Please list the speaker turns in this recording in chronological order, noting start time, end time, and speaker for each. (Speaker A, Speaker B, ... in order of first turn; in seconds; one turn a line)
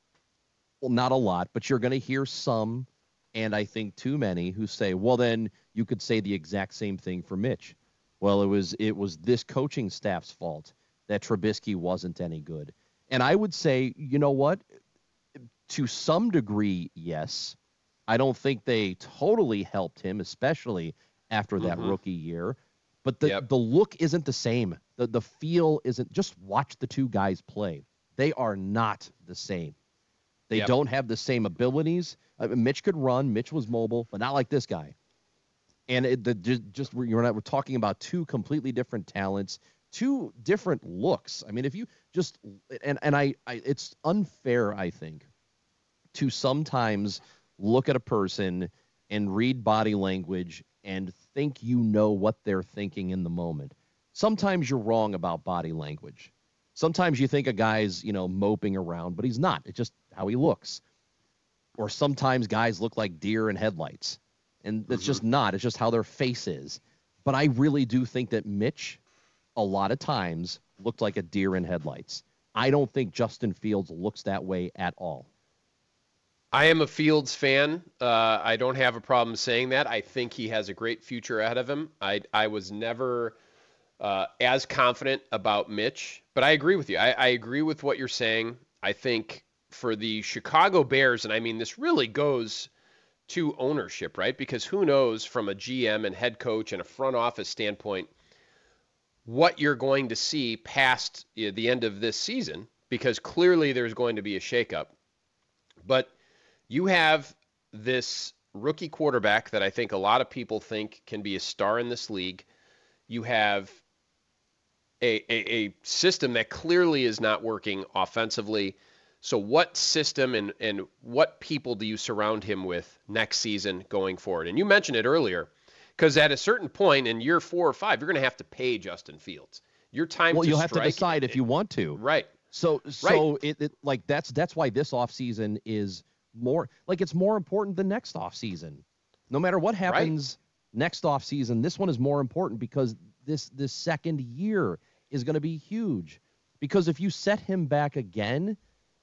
Speaker A: 0.8-14.7
Speaker A: 15.4-29.8
Speaker B: 21.6-22.0
Speaker A: 30.5-34.9
Speaker A: 35.9-45.3
Speaker A: 46.1-60.8
Speaker A: 61.8-69.0
Speaker B: 64.9-65.2
Speaker A: 69.6-75.3
Speaker B: 76.5-83.3
Speaker B: 84.0-92.7
Speaker B: 93.3-98.1
Speaker B: 99.3-104.9
Speaker B: 105.9-106.1
Speaker B: 106.7-112.5
Speaker B: 113.1-113.8
Speaker B: 115.0-131.4
Speaker A: 130.3-148.6
Speaker B: 131.9-132.3
Speaker B: 139.9-140.1